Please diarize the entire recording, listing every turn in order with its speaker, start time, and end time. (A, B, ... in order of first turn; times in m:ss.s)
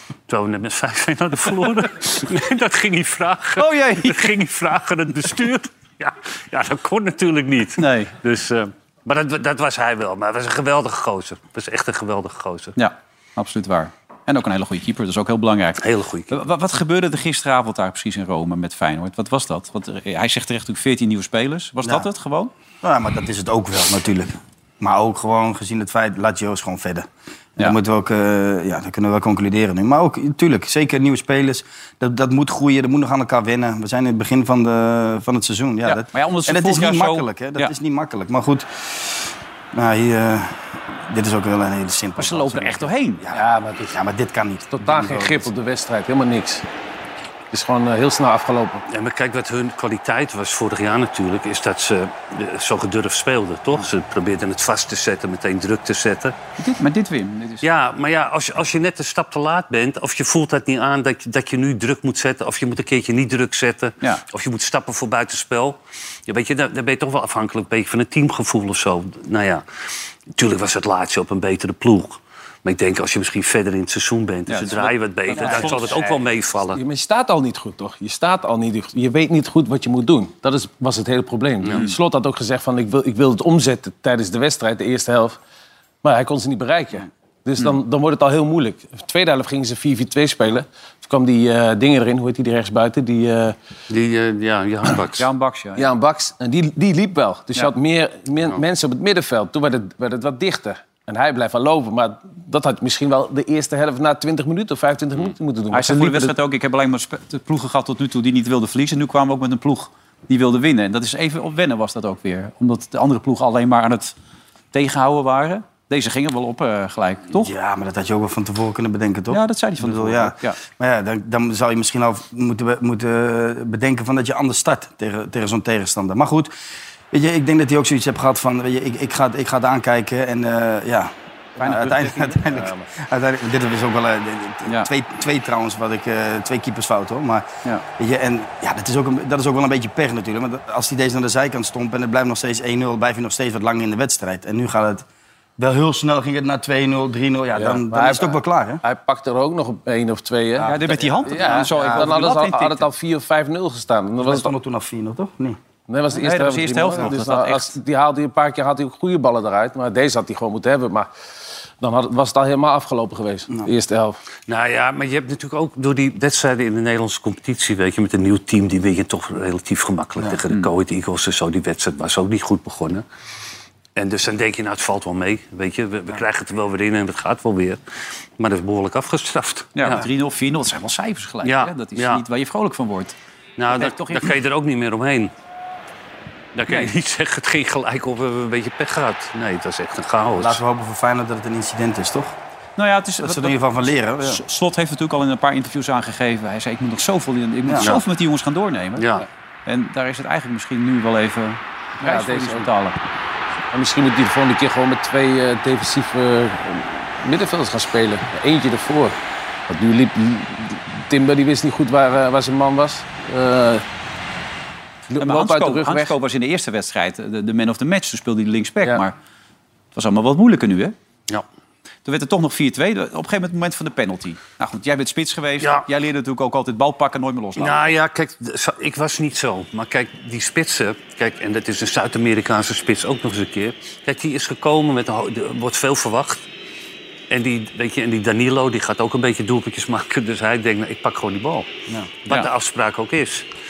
0:00.3-0:12.8 A
0:03.6-0:04.3 B
0:07.8-0:08.1 B
0:12.8-0:22.5 B
0:15.8-0:16.3 A
0:22.8-0:45.5 C
0:35.8-0:37.7 B
0:42.2-0:43.2 B
0:43.3-0:43.9 D
0:44.7-0:46.6 D
0:47.5-0:48.8 D
0:48.9-0:56.4 A
0:56.6-0:57.6 B
0:57.6-1:09.6 A
1:10.3-1:16.8 A
1:14.5-1:14.9 B
1:15.3-1:25.4 D
1:15.4-1:15.9 B
1:26.0-1:33.6 D
1:33.9-1:35.2 A
1:35.2-1:35.9 B
1:35.8-1:46.4 D
1:45.7-1:54.1 B
1:54.7-1:57.5 B
1:57.4-2:06.5 C
1:59.3-2:00.6 B
2:07.1-2:25.0 C
2:11.6-2:12.4 B
2:12.4-2:12.8 D
2:25.6-2:28.8 C
2:27.5-2:34.5 D
2:30.6-2:32.0 C
2:30.6-2:32.9 B
2:34.2-2:35.6 C
2:35.9-2:41.1 D
2:36.1-2:37.8 B
2:41.8-2:44.2 D
2:44.5-2:53.0 A
2:54.0-2:57.8 A
2:58.4-3:00.0 A
2:59.8-3:03.1 B
3:01.4-3:02.2 A
3:03.6-3:05.3 A
3:03.7-3:04.3 B
3:06.5-3:10.6 A
3:10.4-3:12.4 C
3:12.8-3:23.0 B
3:13.2-3:14.4 C
3:17.6-3:17.9 C
3:19.0-3:19.2 A
3:22.0-3:22.7 D
3:23.7-3:29.2 D
3:29.7-3:33.8 D
3:35.1-3:36.2 D
3:35.2-3:39.1 B
3:39.9-3:40.9 B
3:42.0-3:47.9 B
3:45.6-3:45.8 A
3:47.6-3:56.4 A
3:57.3-4:01.7 A
4:02.2-4:03.4 A